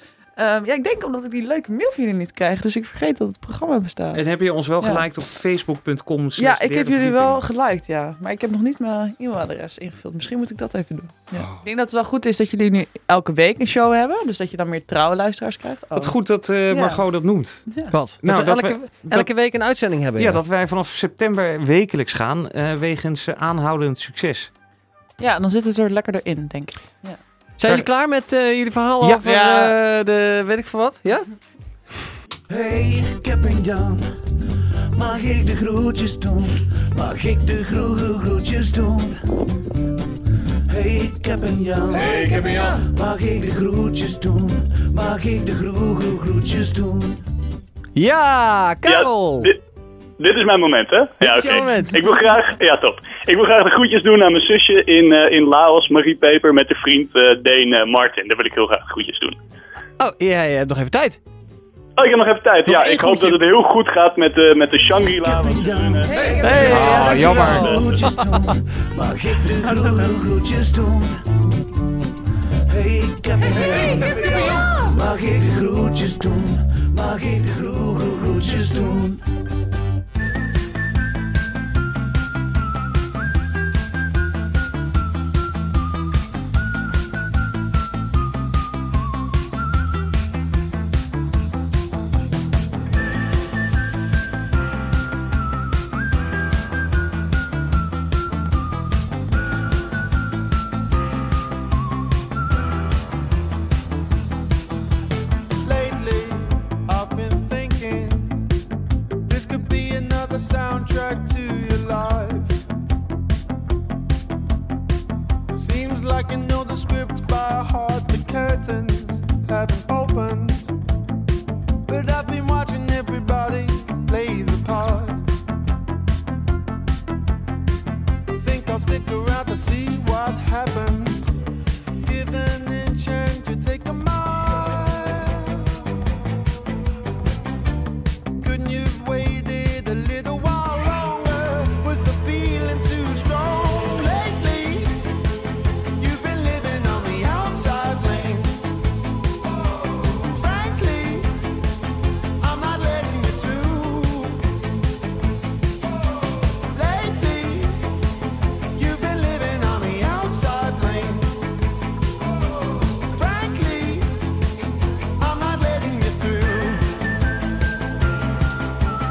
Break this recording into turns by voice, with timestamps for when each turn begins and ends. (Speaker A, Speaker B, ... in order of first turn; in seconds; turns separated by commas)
Speaker A: 0.3-4.2, Speaker B: 4.1-7.4, Speaker A: 6.4-16.1, Speaker B: 11.3-11.6, Speaker B: 15.9-19.2, Speaker A: 16.7-17.0, Speaker A: 17.7-17.9, Speaker C: 17.9-20.4, Speaker B: 20.2-24.5, Speaker A: 25.2-27.8, Speaker C: 27.6-31.3, Speaker A: 29.1-29.7, Speaker D: 32.5-34.1, Speaker D: 34.9-39.2, Speaker D: 40.7-47.2, Speaker A: 42.1-42.8, Speaker C: 48.0-49.5, Speaker E: 48.8-49.6, Speaker E: 50.2-59.4, Speaker C: 51.2-52.2, Speaker C: 60.0-61.2, Speaker E: 62.0-68.1, Speaker C: 62.7-63.4, Speaker D: 65.2-71.2, Speaker A: 66.1-67.7, Speaker B: 66.5-67.8, Speaker C: 66.8-67.5, Speaker D: 72.7-79.2, Speaker F: 105.6-108.5, Speaker F: 109.2-112.6, Speaker F: 115.5-120.7, Speaker F: 121.9-125.2, Speaker F: 128.3-131.4, Speaker F: 132.0-136.0, Speaker F: 138.4-145.0, Speaker F: 146.0-148.6, Speaker F: 150.2-151.3, Speaker F: 152.4-154.4, Speaker F: 156.7-157.8, Speaker F: 158.7-161.4, Speaker F: 163.1-164.1, Speaker F: 165.2-166.9